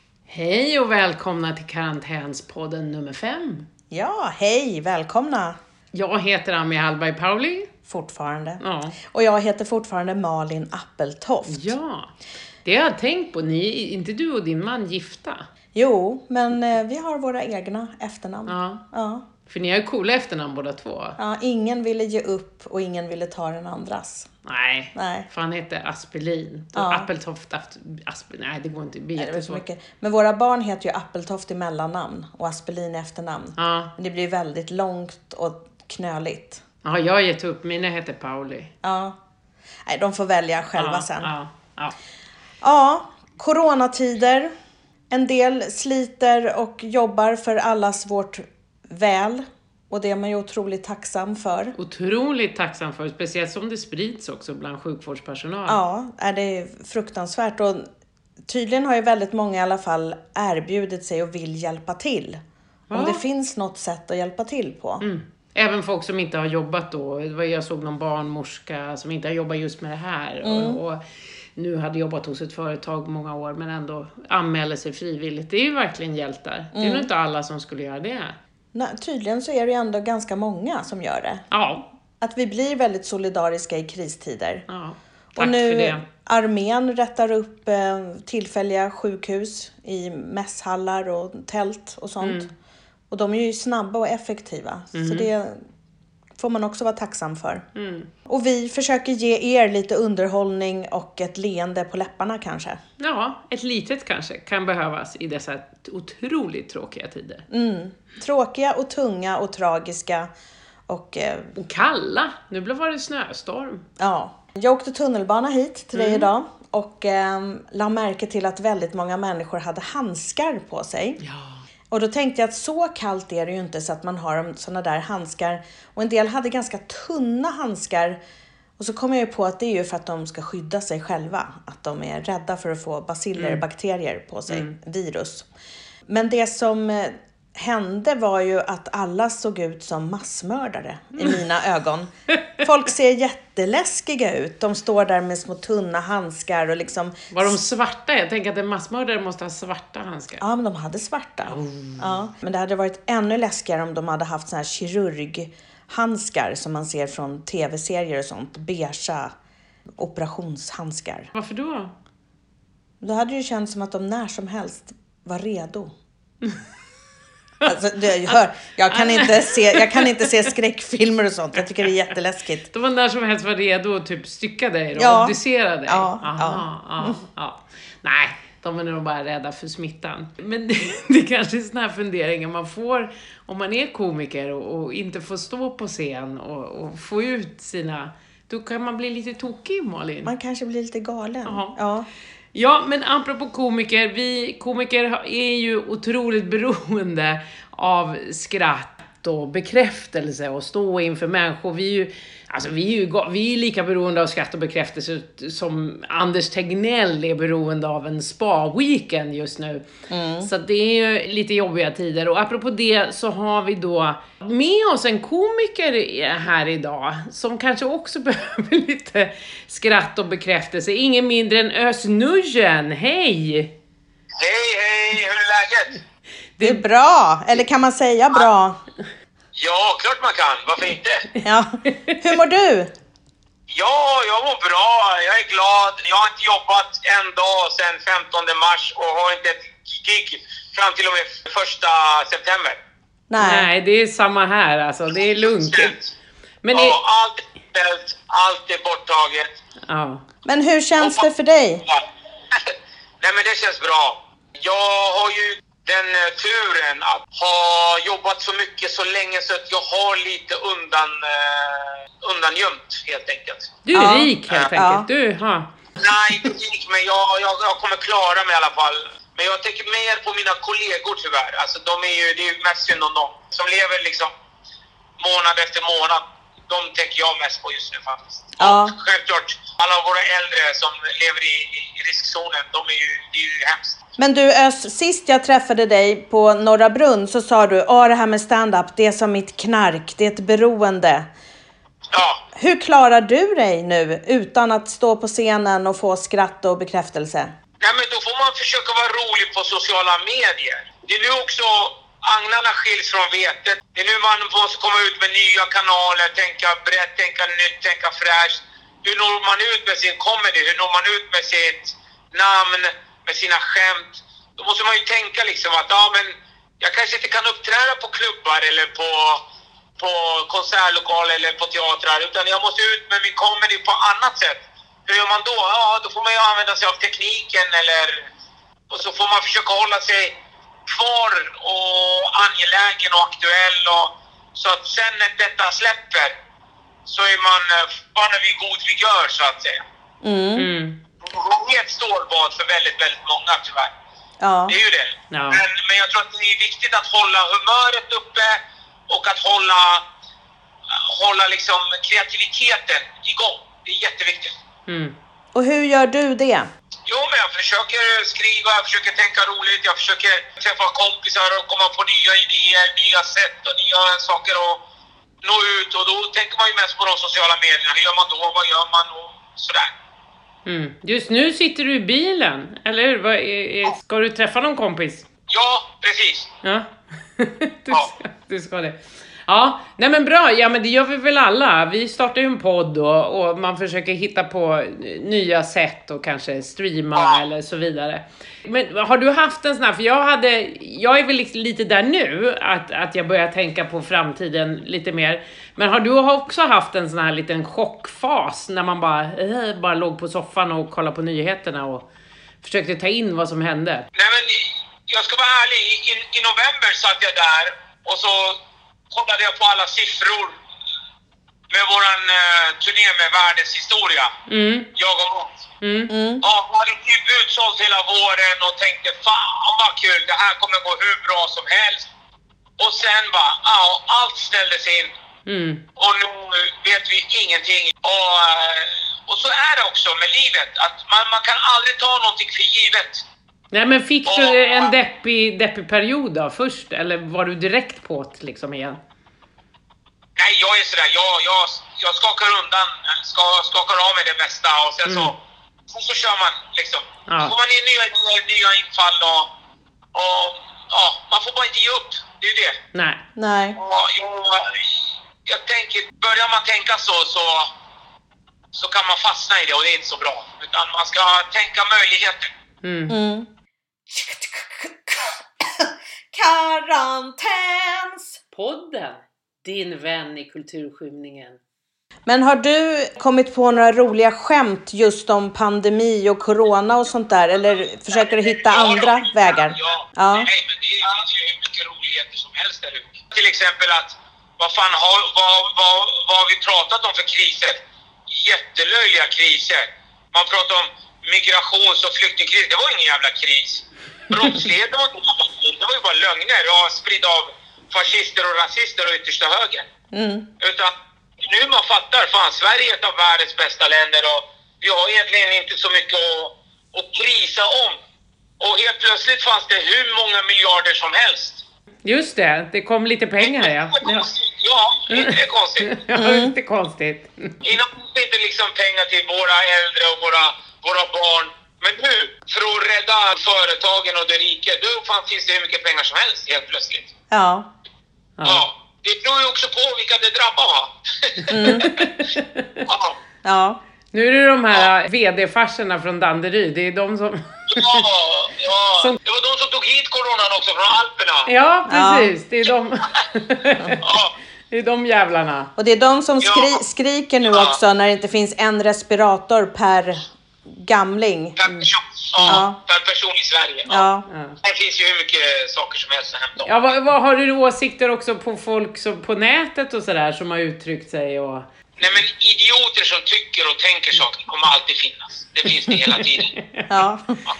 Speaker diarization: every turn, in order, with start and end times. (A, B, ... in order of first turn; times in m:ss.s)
0:00.3-0:03.7 A
0:03.9-0:05.6 B
0:05.9-0:07.7 A
0:07.9-0:11.7 B
0:08.6-0:09.0 A
0:11.5-0:12.1 A
0:12.6-0:15.5 A
0:15.8-0:19.2 B
0:18.5-0:18.8 A
0:19.5-0:21.2 A
0:21.2-0:24.3 B
0:24.5-0:29.6 A
0:25.0-0:25.3 B
0:26.7-0:27.1 B
0:29.2-0:36.6 B
0:33.6-0:33.9 A
0:36.8-0:38.7 A
0:38.8-0:39.2 B
0:39.9-0:41.3 B
0:40.8-0:42.0 A
0:42.6-0:44.5 B
0:45.1-0:51.7 B
0:51.8-0:55.8 A
0:55.7-0:57.9 B
0:58.5-1:02.4 B
1:02.9-1:03.2 A
1:02.9-1:05.0 B
1:05.0-1:11.0 A
1:10.4-1:10.8 B
1:11.6-1:18.4 A
1:16.7-1:17.1 B
1:18.7-1:21.4 B
1:21.5-1:21.9 A
1:22.2-1:24.7 B
1:24.7-1:26.0 A
1:25.3-1:32.5 B
1:32.2-1:32.5 A
1:33.1-1:35.6 B
1:34.9-1:35.3 A
1:36.4-1:37.6 B
1:37.8-1:38.1 A
1:38.3-1:42.8 B
1:43.0-1:47.5 A
1:47.5-1:50.3 B
1:50.9-1:51.5 B
1:51.6-1:53.8 A
1:54.0-2:01.2 B
1:55.9-1:56.3 A
2:01.2-2:01.6 A
2:01.9-2:08.2 B
2:08.8-2:15.5 B
2:13.4-2:13.6 A
2:14.5-2:14.8 A
2:16.1-2:27.6 B
2:27.3-2:30.4 A
2:30.4-2:39.3 B
2:31.5-2:32.1 A
2:40.0-2:41.3 B
2:41.3-2:41.9 A
2:43.0-2:46.0 B
2:47.6-2:52.7 B
2:48.9-2:50.4 A
2:52.7-3:10.3 A
2:55.0-2:57.2 B
3:10.2-3:12.1 B
3:11.4-3:11.8 A
3:12.5-3:29.9 A
3:30.1-3:30.5 B
3:30.4-3:43.7 A
3:44.4-3:46.0 C
3:46.6-3:46.8 A
3:46.6-3:48.8 B
3:49.6-3:51.2 C
3:51.4-3:52.9 B
3:53.7-4:02.8 C
4:03.3-4:03.7 B
4:03.4-4:06.0 A
4:05.7-4:06.1 C
4:06.6-4:07.0 A
4:06.7-4:09.5 C
4:09.9-4:10.2 A
4:10.4-4:11.8 B
4:11.0-4:11.3 C
4:11.8-4:23.8 C
4:23.8-4:25.7 A
4:23.9-4:25.1 B
4:26.0-4:34.3 C
4:35.2-4:44.0 C
4:38.6-4:39.0 B
4:44.2-4:51.3 B
4:52.1-4:52.4 C
4:52.6-4:57.5 B
4:57.8-5:19.4 C
5:20.0-5:28.3 C
5:28.9-5:30.3 C
5:30.9-5:36.3 C
5:37.1-5:39.8 C
5:40.2-5:40.7 B
5:40.6-5:41.0 A
5:41.2-5:43.9 C
5:44.4-5:44.8 B
5:44.7-5:50.0 C
5:45.3-5:45.6 A
5:50.9-5:54.5 C
5:54.9-5:55.1 A
5:55.5-5:56.7 B
5:57.1-6:04.8 C
6:05.4-6:09.9 C
6:10.6-6:15.3 A
6:15.5-6:16.5 C
6:16.6-6:42.1 A
6:27.2-6:27.4 C
6:42.6-6:44.1 A
6:44.2-6:48.6 C
6:49.1-6:50.6 C
6:51.7-6:54.3 C
6:54.5-6:54.9 A
6:55.0-6:55.7 C
6:55.8-6:56.1 A
6:56.1-6:56.4 B
6:56.4-7:02.1 C
7:02.8-7:05.1 C
7:05.5-7:05.8 A
7:06.0-7:13.2 C
7:13.7-7:19.0 A
7:14.3-7:14.9 C
7:20.4-7:25.3 C
7:25.1-7:25.3 A
7:25.9-7:29.5 C
7:27.3-7:27.5 A
7:30.1-7:32.8 C
7:32.9-7:33.2 A
7:33.4-7:33.8 B
7:33.8-7:37.7 C
7:38.7-7:42.5 C
7:42.8-7:43.2 A
7:43.1-7:43.5 B
7:44.1-7:48.4 D
7:48.5-7:51.6 A
7:52.3-8:00.5 B
7:58.2-8:19.9 C
8:20.1-8:20.5 B
8:20.6-8:28.0 C
8:28.6-8:31.6 C
8:32.0-8:34.3 A
8:33.4-8:36.0 C
8:35.1-8:37.6 A
8:36.1-8:36.5 B
8:37.6-8:47.1 C
8:47.3-8:47.7 B
8:48.4-8:48.6 A
8:48.4-8:52.0 C
8:51.5-8:51.9 B
8:51.6-8:52.8 A
8:52.9-8:53.2 C
8:53.4-8:53.8 B
8:54.1-8:58.1 A
8:57.7-9:01.5 C
9:01.5-9:04.1 A
9:01.9-9:02.3 B
9:04.0-9:04.3 C
9:04.7-9:05.7 A
9:05.8-9:11.6 B
9:06.4-9:06.8 C
9:07.5-9:07.8 C
9:11.6-9:14.0 C
9:11.6-9:12.6 A
9:12.5-9:12.8 B
9:13.9-9:14.3 B
9:14.3-9:14.6 A
9:14.6-9:16.7 C
9:16.6-9:21.7 A
9:22.0-9:26.6 C
9:26.6-9:26.9 A
9:26.9-9:27.4 B